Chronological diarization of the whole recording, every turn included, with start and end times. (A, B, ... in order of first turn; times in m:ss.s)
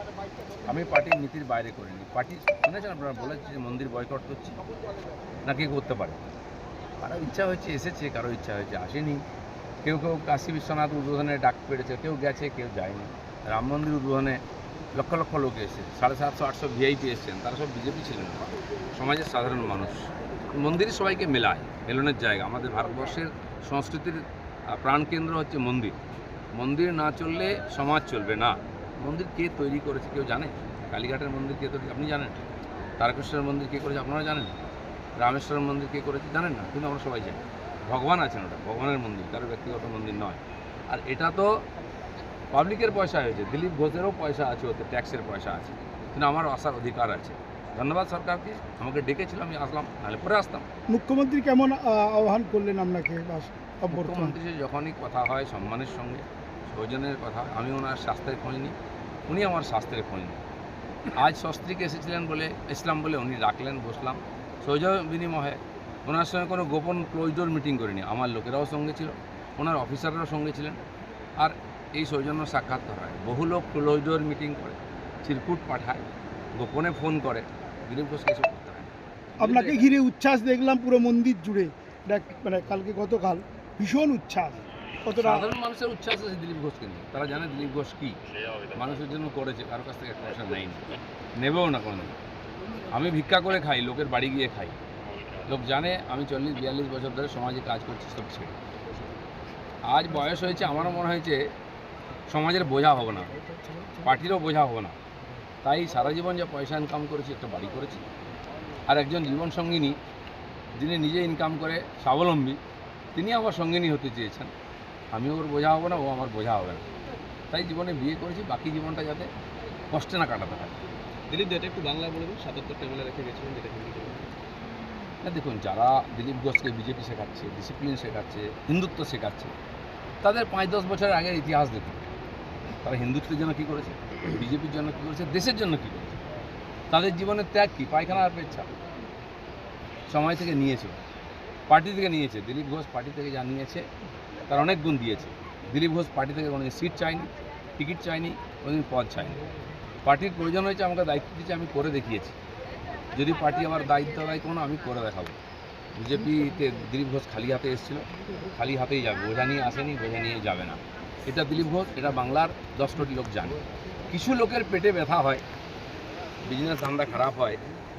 0:00.6-0:04.6 A
0:05.4-0:06.2 A
0:07.0-0:09.2 A
0:09.8-0:14.4 A
0:15.0-0:26.0 A
0:26.6-0:32.4 A
0:33.0-0:34.6 A
0:35.2-0:41.6 A
0:42.5-0:50.7 A
0:50.9-0:54.4 B
0:53.9-0:58.8 A
0:59.3-1:00.4 A
1:01.1-1:10.8 A
1:11.4-1:16.0 A
1:16.6-1:19.7 A
1:19.4-1:25.5 B
1:19.6-1:19.9 C
1:25.2-1:28.2 A
1:28.7-1:32.2 A
1:32.9-1:34.8 A
1:35.5-1:38.6 A
1:39.8-1:41.4 A
1:42.3-1:43.4 A
1:44.0-1:45.0 A
1:45.6-1:48.0 A
1:48.9-1:50.0 A
1:50.8-1:52.6 A
1:53.2-1:54.5 A
1:55.1-1:56.8 A
1:57.5-1:59.3 A
1:59.9-2:00.7 A
2:01.3-2:04.4 C
2:05.2-2:09.5 A
2:10.2-2:12.0 A
2:12.8-2:16.2 A
2:16.9-2:18.7 A
2:20.1-2:21.0 A
2:21.7-2:23.9 A
2:24.5-2:29.4 A
2:30.0-2:32.4 A
2:33.1-2:35.4 A
2:36.0-2:45.4 A
2:46.4-2:47.6 A